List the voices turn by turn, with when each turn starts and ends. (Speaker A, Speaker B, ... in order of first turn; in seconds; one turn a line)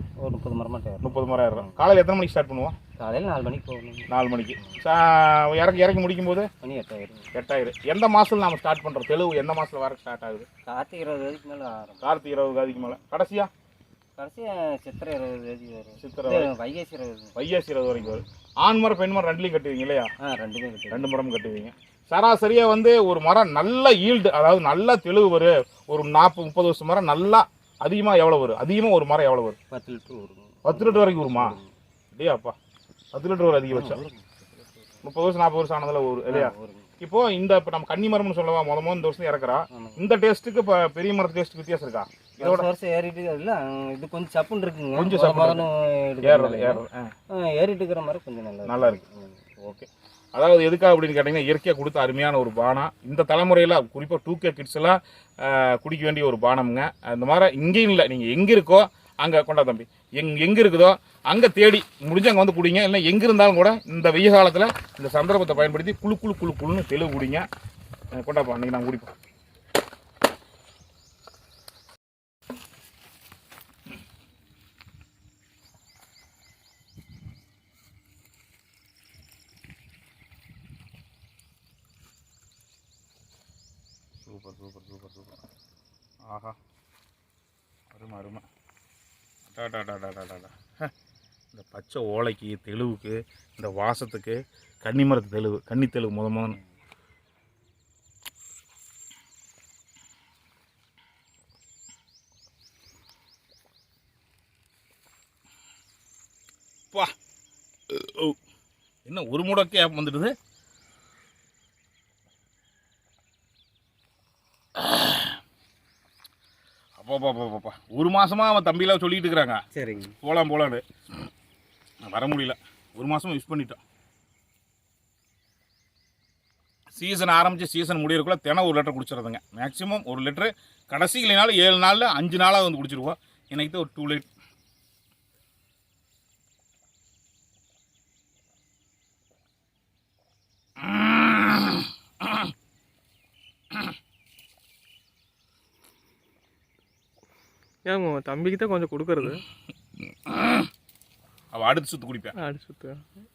Speaker A: 0.2-1.8
Speaker B: 1.0-2.8
Speaker A: 3.0-4.1
Speaker B: 4.1-6.5
Speaker A: 6.6-7.3
Speaker B: 7.3-10.5
Speaker A: 10.7-12.0
Speaker B: 12.0-13.5
Speaker A: 14.2-17.4
Speaker B: 16.0-16.5
Speaker B: 17.4-20.1
Speaker A: 20.2-21.1
Speaker B: 20.9-29.6
Speaker A: 29.7-31.7
Speaker B: 30.6-31.6
Speaker B: 32.2-32.5
Speaker B: 33.1-34.0
Speaker A: 33.7-34.4
Speaker B: 35.0-42.7
Speaker A: 36.3-36.9
Speaker A: 39.7-40.0
Speaker A: 42.4-49.5
Speaker B: 45.0-45.7
Speaker B: 46.2-47.1
Speaker B: 48.6-49.0
Speaker B: 49.6-67.5
Speaker B: 68.2-69.1
Speaker B: 84.2-85.4
Speaker B: 86.3-86.6
Speaker B: 87.9-88.5
Speaker B: 89.5-90.9
Speaker B: 91.5-96.6
Speaker B: 107.9-108.4
Speaker B: 109.1-110.3
Speaker B: 114.8-115.3
Speaker B: 117.0-119.6
Speaker A: 119.8-120.2
Speaker B: 120.2-120.8
Speaker B: 122.1-123.8
Speaker B: 126.9-134.3
Speaker B: 140.8-142.5
Speaker C: 147.8-149.4
Speaker B: 150.2-150.7
Speaker B: 151.5-152.4
Speaker C: 152.3-153.1